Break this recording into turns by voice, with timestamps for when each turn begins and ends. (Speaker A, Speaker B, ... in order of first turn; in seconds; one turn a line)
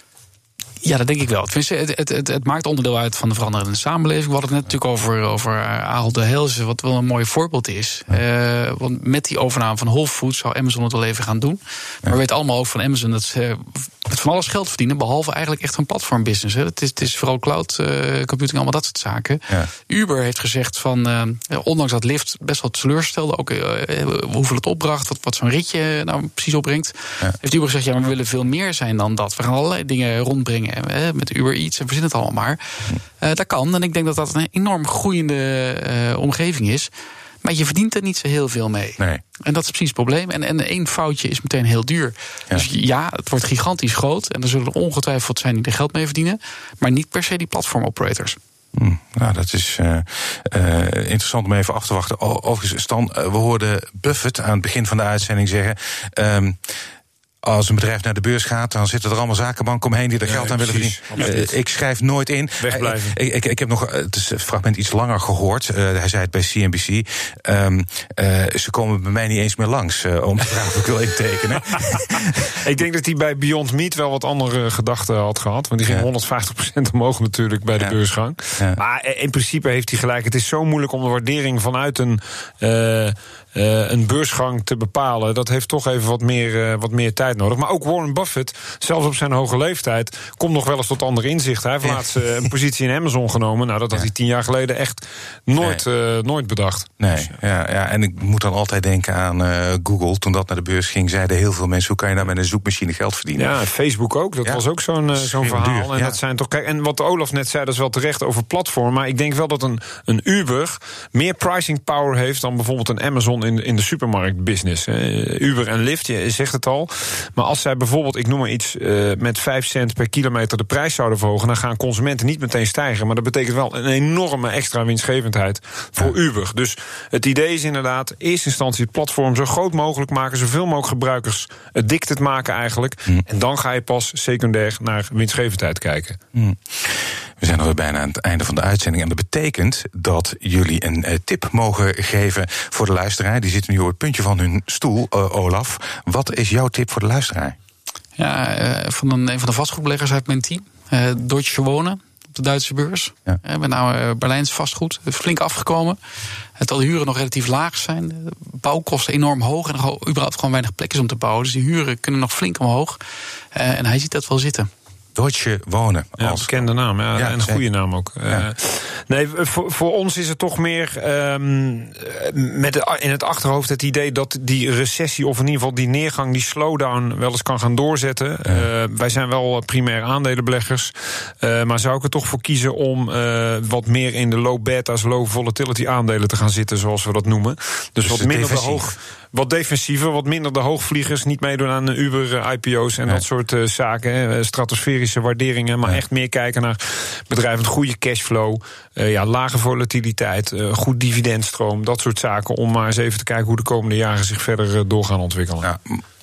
Speaker A: 0.8-36.9
Speaker A: 37.4-48.4
Speaker B: 39.0-39.2
Speaker B: 48.7-56.8
Speaker B: 57.4-72.5
Speaker C: 60.2-61.5
Speaker C: 62.6-63.2
Speaker C: 72.5-97.3
Speaker B: 95.6-95.8
Speaker B: 97.0-103.5
Speaker C: 103.4-136.2
Speaker B: 105.1-106.2
Speaker B: 136.3-147.6
Speaker A: 148.2-156.0
Speaker A: 156.6-163.0
Speaker A: 163.5-164.7
Speaker B: 165.2-167.6
Speaker C: 166.2-205.7
Speaker B: 188.0-188.9
Speaker B: 205.6-206.0